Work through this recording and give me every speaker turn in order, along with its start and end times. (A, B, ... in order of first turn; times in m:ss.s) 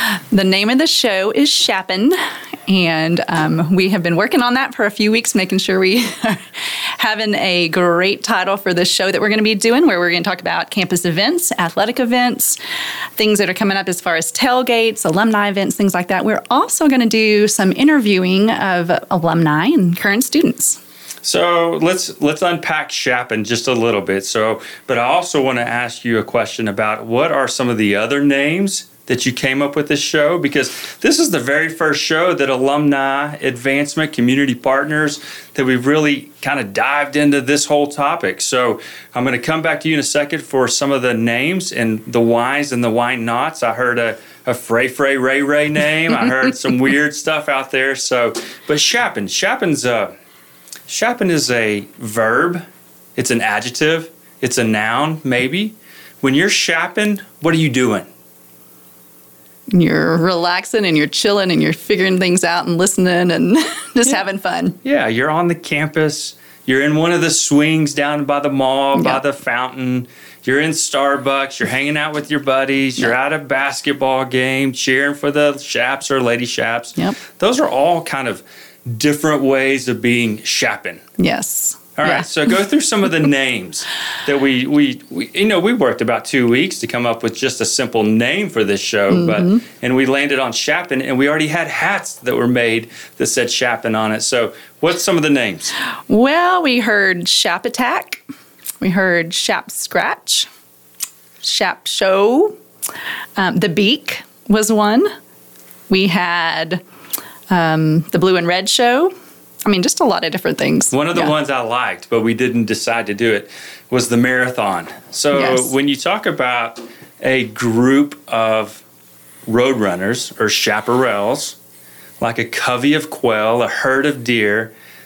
0:00.1-0:02.2 A
0:02.7-0:06.4 A
0:07.0-0:12.6 A
0:13.2-0:20.8 A
0:21.2-0:50.1 B
0:50.9-0:52.6 B
0:53.2-0:58.1 B
0:59.7-1:04.8 A
1:04.8-1:21.0 B
1:08.9-1:09.2 A
1:21.2-1:22.2 A
1:22.0-1:35.7 B
1:29.1-1:29.6 A
1:36.1-1:38.2 A
1:38.8-1:40.5 A
1:41.4-1:42.6 A
1:43.4-1:45.1 A
1:45.9-1:46.8 A
1:47.5-1:49.1 A
1:49.6-1:51.3 A
1:50.9-1:58.8 B
1:55.3-1:55.7 A
1:59.5-2:01.6 B
2:02.2-2:04.7 B